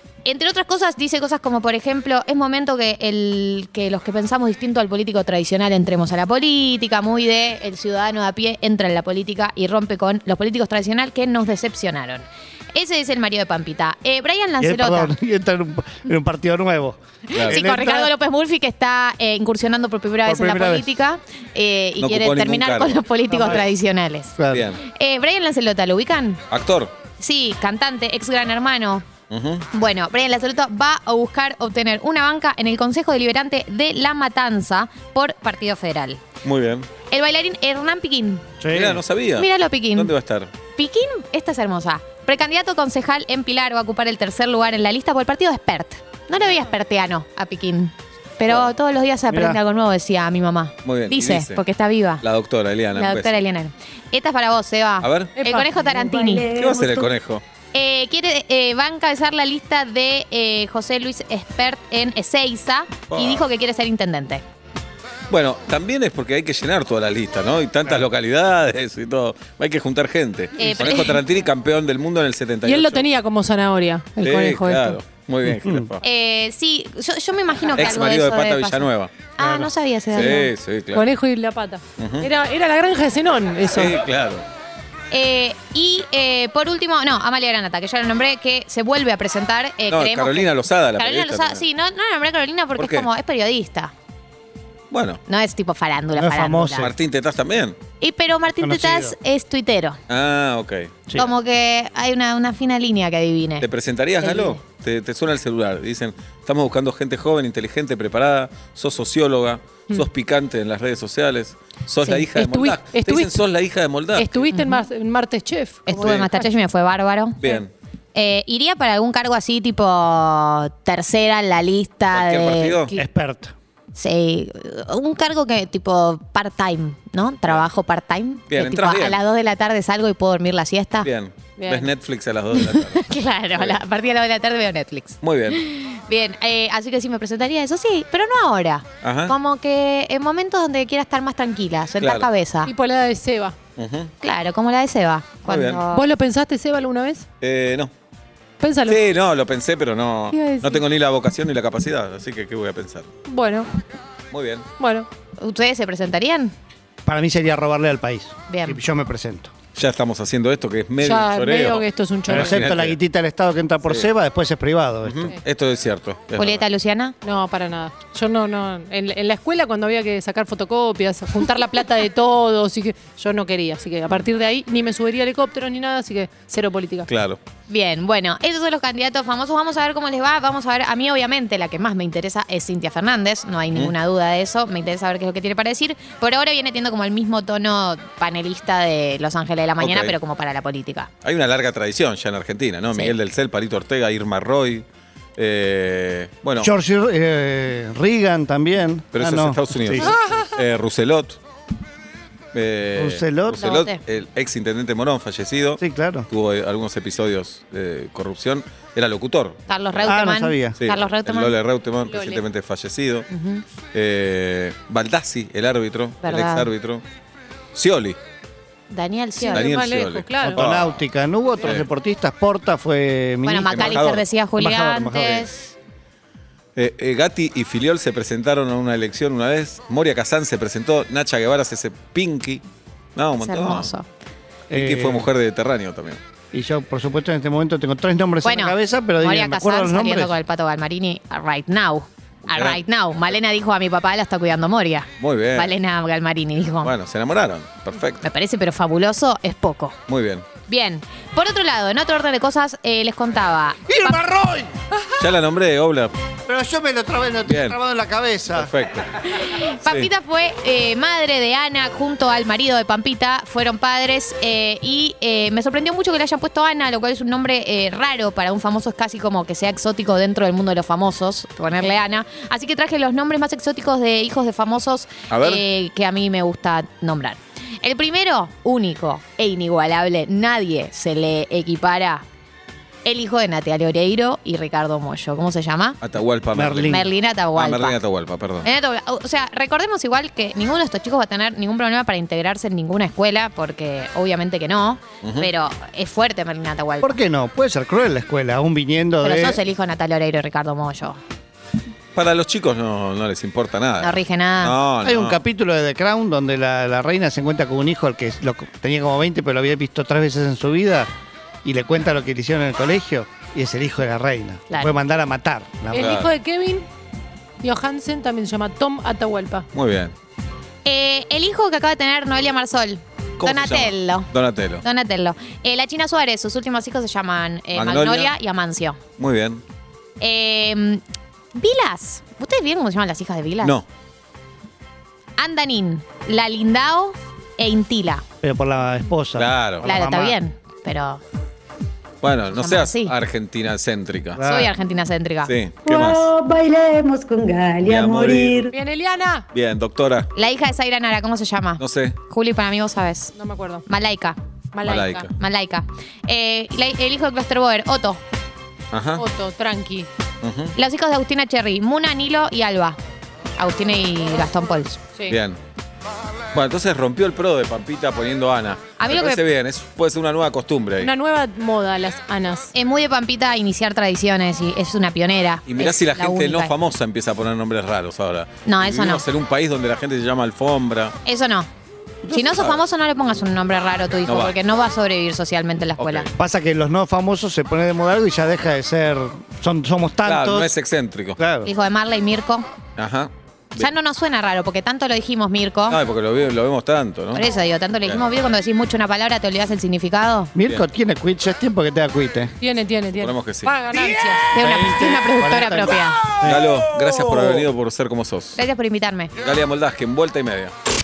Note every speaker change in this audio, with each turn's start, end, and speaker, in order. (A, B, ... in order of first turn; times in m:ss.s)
0:00.2-0:15.1 A
0:14.6-0:18.1 B
0:17.3-0:26.4 A
0:17.3-0:17.6 C
0:20.2-0:20.9 B
0:22.0-0:23.0 C
0:23.3-0:23.7 B
0:24.4-0:24.7 B
0:24.5-0:24.8 C
0:26.5-0:26.9 C
0:27.2-0:29.1 A
0:29.3-0:29.6 C
0:29.7-0:36.2 A
0:36.4-0:36.9 C
0:37.1-0:38.5 A
0:38.6-0:39.0 B
0:38.7-0:40.5 C
0:39.4-0:40.1 A
0:40.7-0:52.2 A
0:49.3-0:49.6 B
0:50.8-0:51.6 C
0:52.2-0:53.4 C
0:52.9-0:56.5 A
0:55.0-0:55.4 C
0:55.4-0:57.0 D
0:56.6-0:57.4 C
0:57.7-1:04.4 A
1:03.1-1:03.4 C
1:05.3-1:13.1 C
1:10.6-1:11.2 A
1:12.6-1:15.0 D
1:14.2-1:16.0 C
1:15.5-1:15.9 B
1:16.0-1:20.5 A
1:17.8-1:19.6 C
1:20.1-1:21.1 C
1:20.2-1:24.0 D
1:22.0-1:22.3 C
1:23.7-1:24.4 C
1:25.1-1:33.9 A
1:29.9-1:31.6 C
1:32.8-1:33.1 C
1:34.9-1:35.2 C
1:35.3-1:36.9 A
1:36.2-1:36.9 B
1:36.8-1:37.8 C
1:38.0-1:40.0 A
1:38.6-1:39.2 B
1:40.1-1:41.3 C
1:41.2-1:43.7 A
1:43.6-1:54.5 C
1:44.2-1:44.6 A
1:52.3-1:53.4 D
1:54.2-1:56.5 D
1:54.5-1:54.8 A
1:55.9-1:57.4 A
1:55.9-1:56.3 C
1:57.4-1:57.7 C
1:58.1-2:02.9 A
2:02.1-2:02.9 C
2:03.0-2:03.5 B
2:04.0-2:11.1 A
2:08.5-2:09.2 C
2:11.0-2:13.8 C
2:11.6-2:11.9 D
2:12.5-2:22.7 A
2:15.2-2:15.6 C
2:19.0-2:19.4 C
2:22.0-2:22.3 C
2:22.6-2:23.6 D
2:23.8-2:24.1 C
2:24.2-2:26.1 A
2:25.5-2:25.8 C
2:25.9-2:27.3 D
2:27.4-2:27.9 C
2:28.6-2:29.0 D
2:28.9-2:33.1 C
2:30.3-2:30.8 D
2:33.3-2:33.7 D
2:34.3-2:34.6 C
2:34.8-2:35.1 D
2:35.4-2:36.5 A
2:37.0-2:39.5 B
2:38.5-2:38.8 A
2:39.7-2:43.0 C
2:41.0-2:42.6 D
2:42.3-2:45.3 B
2:45.0-2:46.6 C
2:46.4-2:47.2 A
2:47.2-2:57.1 D
2:57.1-2:57.4 C
2:57.7-3:11.1 A
3:09.8-3:10.2 C
3:11.2-3:14.9 C
3:15.4-3:16.7 C
3:16.6-3:20.2 B
3:19.1-3:21.4 C
3:22.5-3:30.1 C
3:23.0-3:23.6 B
3:23.6-3:24.0 A
3:25.8-3:26.3 B
3:29.7-3:31.6 A
3:30.0-3:30.8 B
3:30.8-3:33.3 C
3:32.0-3:32.4 D
3:33.3-3:33.6 A
3:33.9-3:37.0 C
3:36.2-3:36.7 A
3:37.7-3:38.2 C
3:38.9-3:39.7 A
3:39.4-3:40.6 D
3:39.5-3:41.0 C
3:40.4-3:45.5 B
3:43.4-3:45.8 A
3:43.7-3:44.2 C
3:46.8-3:52.6 C
3:53.2-3:53.9 C
3:53.4-3:54.1 A
3:54.7-3:55.3 B
3:54.7-3:56.2 C
3:56.5-4:00.3 B
3:58.4-4:06.9 A
4:02.5-4:02.8 C
4:05.2-4:05.8 C
4:06.8-4:08.2 C
4:08.2-4:10.0 A
4:10.1-4:10.5 C
4:10.7-4:14.2 A
4:13.9-4:14.8 B
4:15.2-4:16.1 C
4:16.5-4:18.7 B
4:17.4-4:17.8 C
4:18.5-4:19.1 C
4:19.3-4:42.2 A
4:35.3-4:35.6 C
4:43.0-4:46.0 A
4:46.0-4:48.7 C
4:46.5-4:47.0 B
4:46.9-4:48.0 A
4:48.6-4:57.2 A
4:55.2-4:55.5 C
4:57.0-4:59.6 B
4:59.2-5:01.2 A
5:02.2-5:05.4 C
5:04.0-5:04.8 A
5:05.0-5:11.1 B
5:11.6-5:16.2 B
5:14.7-5:15.0 A
5:15.9-5:16.9 D
5:15.9-5:16.3 C
5:17.6-5:19.7 D
5:19.7-5:20.1 C
5:20.8-5:29.0 A
5:23.4-5:24.8 C
5:27.7-5:28.3 C
5:29.2-5:29.6 C
5:30.2-5:31.0 A
5:31.5-5:33.8 A
5:35.4-5:38.2 A
5:38.4-5:40.4 B
5:39.4-5:39.9 C
5:39.8-5:41.2 A
5:42.2-5:44.4 C
5:42.6-5:43.2 A
5:44.4-5:44.7 B
5:44.4-5:45.5 A
5:45.4-5:46.3 C
5:45.9-5:48.7 E
5:47.8-5:48.6 C
5:48.6-5:49.5 D
5:49.5-5:50.3 C
5:50.4-5:53.3 A
5:51.8-5:52.2 C
5:53.4-5:53.8 D
5:53.9-5:54.4 A
5:54.7-5:55.3 D
5:54.8-5:55.3 C
5:55.4-5:58.2 A
5:58.9-5:59.2 C
5:59.2-6:00.1 D
6:00.4-6:00.8 C
6:00.8-6:03.0 A
6:03.6-6:05.0 A
6:05.3-6:05.6 C
6:06.5-6:11.1 C
6:09.0-6:09.4 A
6:11.0-6:12.7 D
6:12.7-6:16.7 A
6:15.7-6:21.2 C
6:18.7-6:19.2 A
6:21.3-6:21.7 A
6:22.2-6:22.8 C
6:22.3-6:26.3 A
6:24.3-6:24.6 C
6:26.0-6:26.3 C
6:26.4-6:30.7 B
6:30.2-6:31.4 C
6:31.4-6:31.7 B
6:31.6-6:32.7 A
6:33.0-6:33.9 C
6:33.8-6:36.0 A
6:35.9-6:37.5 C
6:37.3-6:40.5 A
6:40.6-6:42.5 B
6:42.6-6:44.6 D
6:43.1-6:43.8 C
6:44.5-6:46.2 A
6:44.6-6:46.7 B
6:46.4-6:48.6 C
6:47.3-6:47.6 B
6:48.6-6:49.3 A
6:49.4-6:50.7 C